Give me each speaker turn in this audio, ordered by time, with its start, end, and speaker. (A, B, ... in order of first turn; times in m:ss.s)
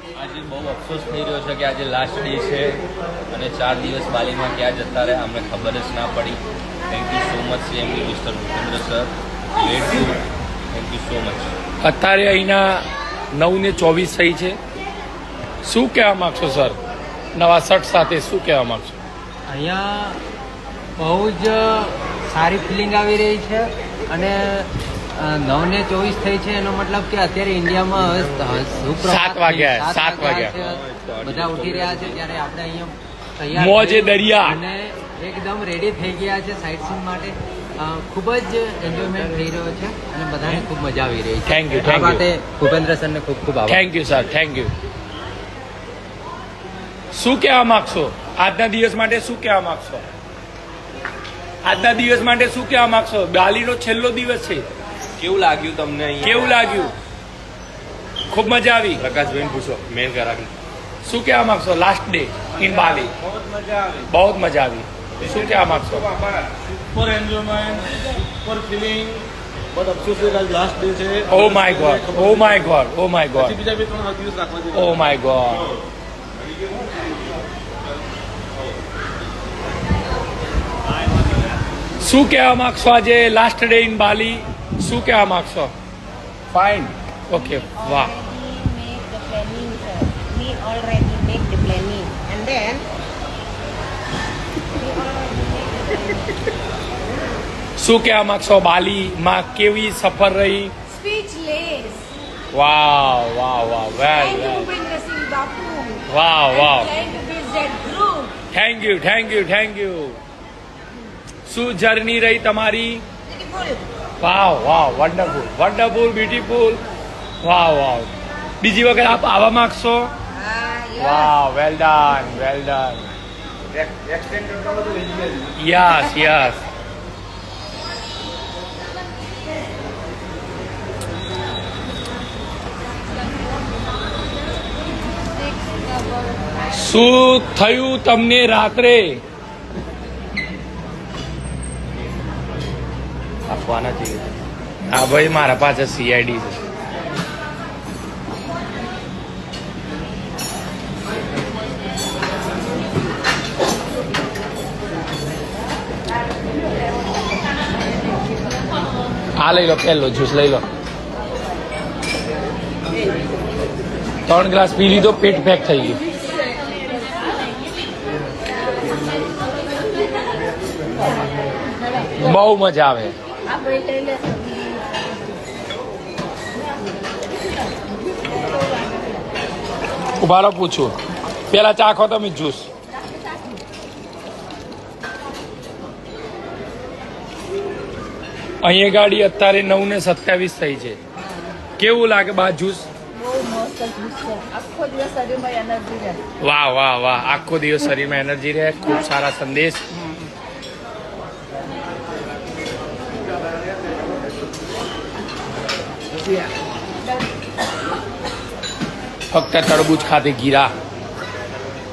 0:00.2-0:11.5 A
0:11.8-0:14.6 B
0:15.6-0:16.8 B
0:17.4-0:19.0 B
0:19.5-0:20.2 C
0:21.0-0:43.8 C
0:29.0-0:30.5 B
0:30.5-0:32.2 A
0:33.5-0:34.6 B
0:41.5-0:42.2 B
0:43.6-0:44.7 B
0:47.1-0:50.0 B
0:51.6-0:54.6 B
0:55.2-0:56.5 A
0:56.2-0:56.9 B
0:58.3-0:59.0 B
0:59.0-1:00.5 A
1:01.0-1:03.1 B
1:03.2-1:04.0 D
1:04.1-1:06.1 B
1:06.2-1:07.8 D
1:08.4-1:09.2 D
1:09.8-1:11.8 D
1:11.3-1:13.7 B
1:13.7-1:14.7 D
1:14.7-1:15.7 B
1:22.0-1:25.7 B
1:26.5-1:28.1 B
1:27.3-1:32.9 E
1:34.8-1:36.3 E
1:37.8-1:40.7 B
1:40.9-1:42.1 F
1:42.5-1:44.8 B
1:44.3-1:46.0 F
1:46.0-1:47.0 B
1:46.5-1:48.3 F
1:48.5-1:50.2 B
1:51.5-1:53.0 B
1:53.3-1:53.8 E
1:54.2-1:56.8 B
1:57.4-2:00.1 B
2:00.3-2:01.2 E
2:01.0-2:03.0 B
2:03.8-2:05.4 D
2:05.6-2:06.6 B
2:15.6-2:16.2 F
2:16.7-2:19.2 B
2:23.5-2:24.2 A
2:24.9-2:26.6 B
2:39.4-2:40.6 B
2:44.3-2:46.0 B
2:52.2-2:53.1 B
2:53.5-2:55.1 F
3:00.2-3:00.9 B
3:01.5-3:02.7 B
3:08.6-3:11.0 B
3:11.8-3:12.9 B
3:13.2-3:16.2 F
3:16.4-3:20.0 B
3:29.3-3:30.7 B